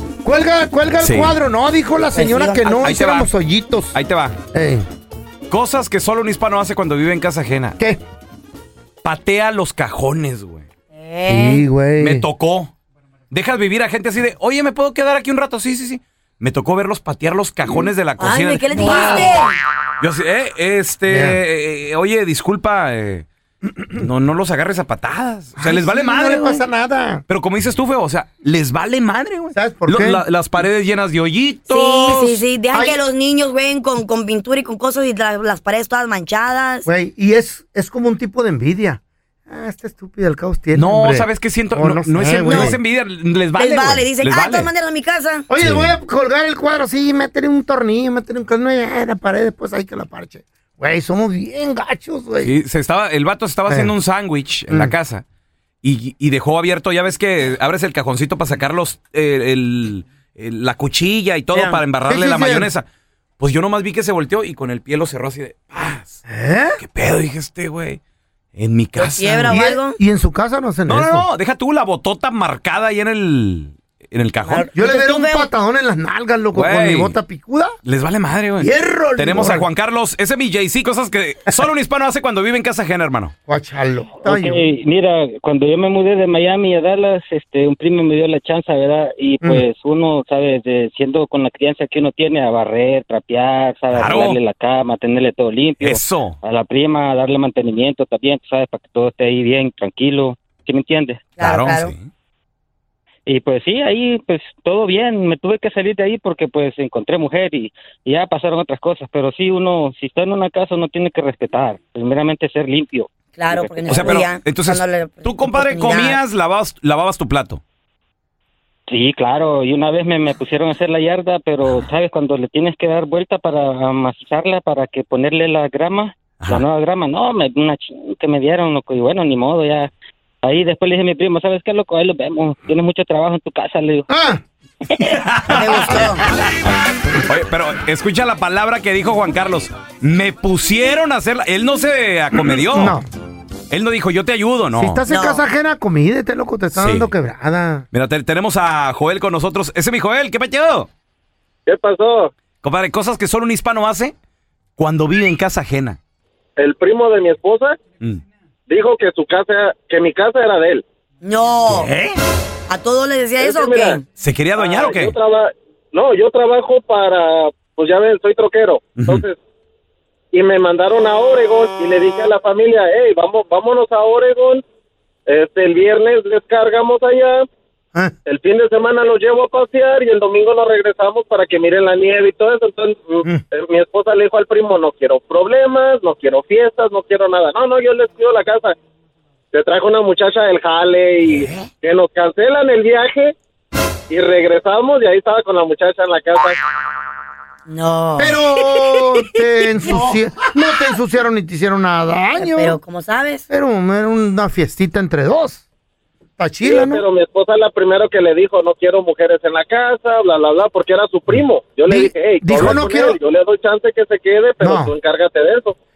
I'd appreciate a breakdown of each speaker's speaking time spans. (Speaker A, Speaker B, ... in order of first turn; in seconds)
Speaker A: 0.2-4.0, 4.5-4.8, 11.3-12.3, 21.1-21.4, 25.6-27.2, 29.5-30.2, 32.7-33.0, 36.9-42.8, 45.5-52.5, 53.7-53.9, 54.7-55.0, 62.0-62.7, 66.3-66.8, 69.5-71.3, 74.7-77.8, 78.6-79.7, 83.5-84.6, 134.1-134.4, 142.4-143.1, 144.8-147.9, 198.2-202.8, 203.5-205.7, 206.4-207.0, 211.9-213.2, 214.6-214.9
Speaker B: 1.0-1.4, 2.7-3.3, 3.9-4.4, 5.5-7.8, 9.0-10.7, 12.0-12.7, 13.3-19.4, 20.0-23.3, 23.9-26.6, 27.3-32.4, 40.7-44.7, 45.6-46.0, 52.4-55.2, 55.8-62.9, 63.4-66.2, 66.8-68.0, 68.5-69.6, 70.9-74.7, 76.5-77.2, 77.8-83.3, 93.9-94.4, 95.8-96.4, 101.4-102.1, 113.9-117.6, 135.1-136.6, 137.3-143.0, 143.7-145.0, 146.7-147.1, 147.9-150.9, 152.6-154.1, 154.8-156.0, 161.7-162.2, 164.2-165.2, 169.0-169.2, 191.2-191.7, 199.8-200.2
Speaker C: 2.1-2.8, 10.9-11.6, 18.2-19.5, 31.7-36.9, 42.4-42.7, 43.6-45.5, 61.5-61.8, 69.0-70.0, 74.5-75.5, 101.4-101.9, 113.4-116.2, 135.5-136.2, 145.1-145.4, 161.2-161.9, 162.7-164.0, 197.7-199.0, 202.4-203.4
Speaker D: 84.2-101.3, 103.3-114.3, 118.9-129.9, 130.4-134.1, 134.9-135.2
Speaker E: 151.7-152.3, 156.6-157.8, 158.7-160.8, 163.4-164.0, 164.6-169.4, 170.3-174.6, 175.3-177.4, 178.3-188.7, 189.5-193.3, 194.1-196.6, 206.7-215.8